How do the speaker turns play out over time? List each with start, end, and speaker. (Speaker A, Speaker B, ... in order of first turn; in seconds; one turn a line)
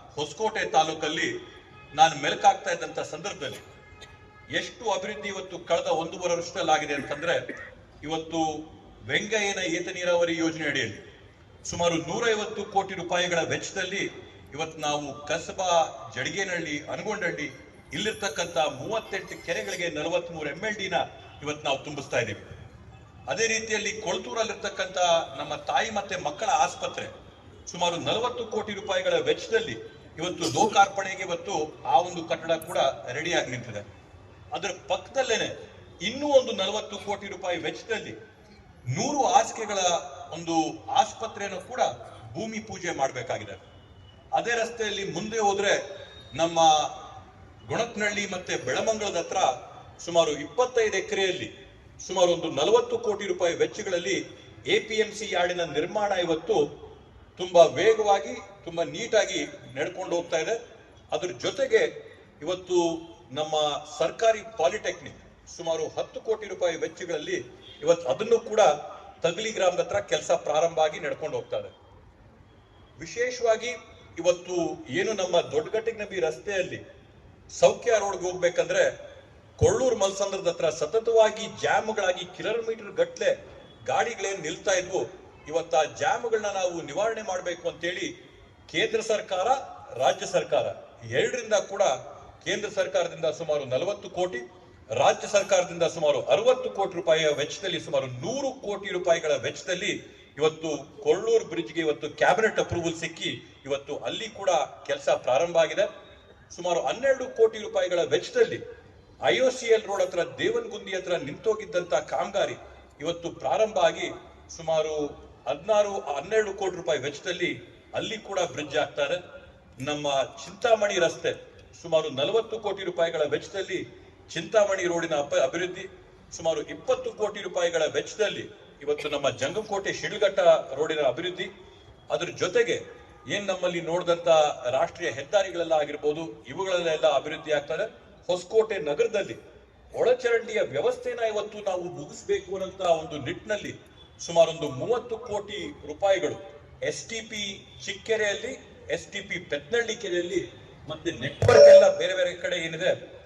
Speaker A: 0.2-1.3
Speaker A: 1.9-3.6
Speaker A: 4.5-7.4
Speaker A: 8.0-11.0
Speaker A: 11.7-22.5
Speaker A: 23.3-27.1
Speaker A: 27.7-33.9
Speaker A: 34.5-38.2
Speaker A: 38.9-43.6
Speaker A: 44.3-45.8
Speaker A: 46.3-46.9
Speaker A: 47.7-54.2
Speaker A: 54.7-56.6
Speaker A: 57.4-60.6
Speaker A: 61.1-61.9
Speaker A: 62.4-68.7
Speaker A: 69.2-71.7
Speaker A: 73.0-76.8
Speaker A: 77.5-78.9
Speaker A: 79.6-88.1
Speaker A: 88.7-105.9
Speaker A: 106.5-108.6
Speaker A: 109.2-119.2
Speaker A: 119.8-131.5
Speaker A: 132.1-139.4
Speaker A: 139.9-153.0